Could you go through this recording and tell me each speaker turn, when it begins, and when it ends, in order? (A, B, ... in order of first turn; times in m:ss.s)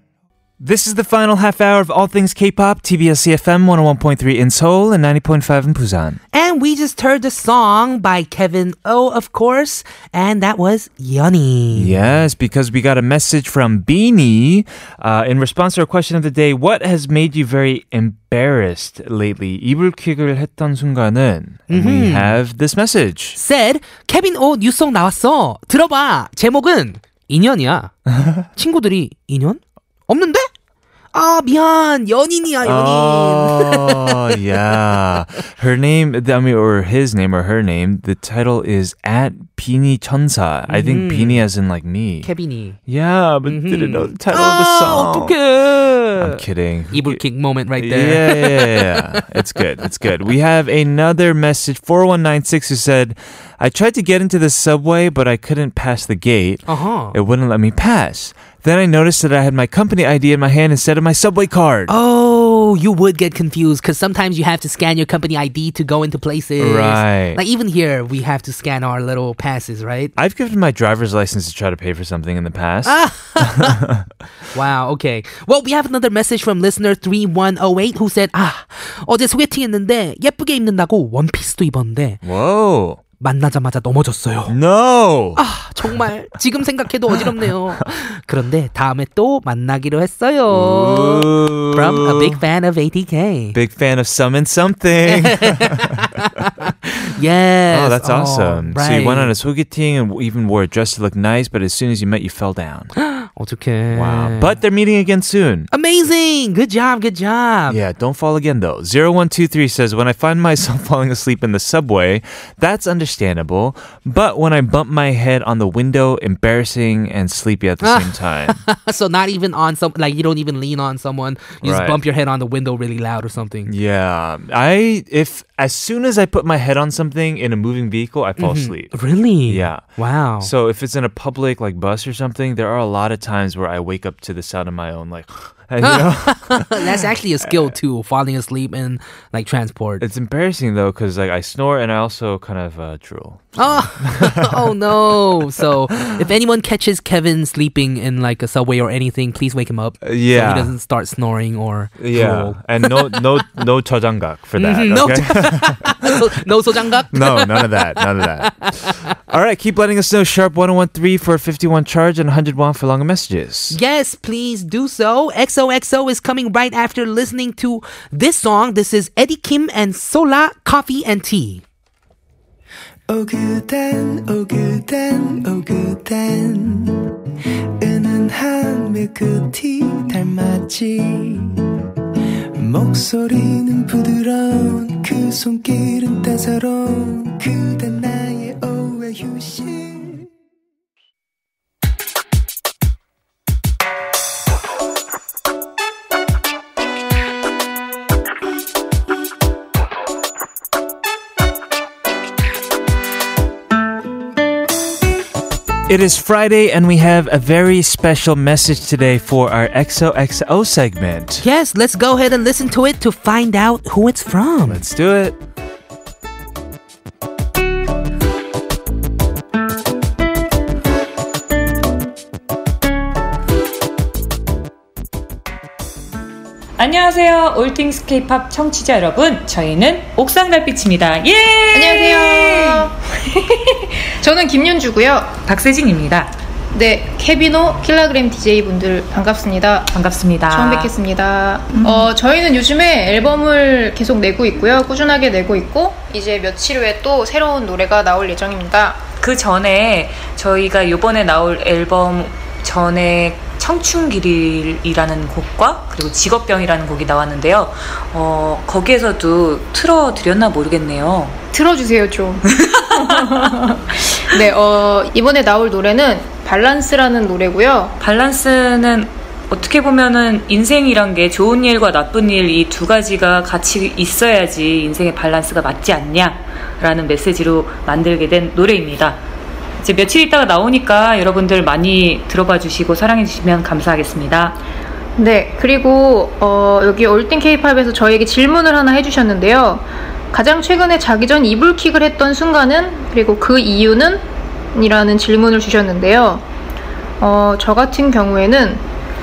0:00.6-0:06.2 A
0:06.3-0:11.9 B
0:11.7-0:23.4 A
0:21.7-0:22.4 B
0:23.4-0:27.9 B
0:28.1-0:28.4 A
0:28.6-0:30.5 B
0:31.1-0:34.2 B
0:32.6-0:42.3 A
0:40.7-0:41.4 B
0:42.2-0:42.8 B
0:42.9-0:45.4 A
0:43.4-0:49.2 B
0:46.2-0:47.2 A
0:47.8-1:01.9 A
0:56.7-0:57.2 B
1:01.9-1:10.1 B
1:06.6-1:07.4 A
1:10.2-1:14.0 A
1:12.8-1:13.8 B
1:14.5-1:22.2 B
1:22.2-1:23.0 A
1:23.2-1:24.6 B
1:24.5-1:25.4 A
1:25.4-1:33.6 B
1:30.5-1:32.4 A
1:33.5-1:36.0 A
1:35.1-1:39.3 B
1:37.7-1:42.9 A
1:43.0-1:44.5 B
1:43.9-1:45.7 A
1:45.7-1:47.8 B
1:47.7-1:58.6 A
1:57.8-2:03.7 B
2:01.6-2:02.0 A
2:03.6-2:08.9 A
2:08.4-2:10.5 B
2:09.4-2:09.8 A
2:10.4-2:17.5 A
2:15.8-2:20.0 B
2:20.0-2:25.4 A
2:23.6-2:33.5 B
2:26.0-2:26.2 A
2:30.0-2:30.7 A
2:32.0-2:36.2 A
2:34.6-2:39.1 B
2:37.1-2:43.8 A
2:43.7-2:51.6 B
2:53.1-2:55.7 C
2:56.3-2:56.9 C
2:57.8-3:01.3 C
3:02.7-3:04.5 C
3:05.0-3:10.1 C
3:25.9-3:31.4 A
3:31.4-3:34.8 B
3:34.6-3:35.4 A
3:46.8-3:52.9 D
3:51.7-3:55.3 E
3:55.4-3:56.3 D
3:56.7-3:59.9 E
3:59.9-4:00.9 D
4:00.5-4:09.0 E
4:01.7-4:02.1 D
4:09.2-4:21.4 D
4:21.5-4:27.9 E
4:22.5-4:23.5 D
4:28.0-4:39.2 D
4:39.8-4:44.6 D
4:45.2-4:56.4 E
4:57.2-4:58.8 E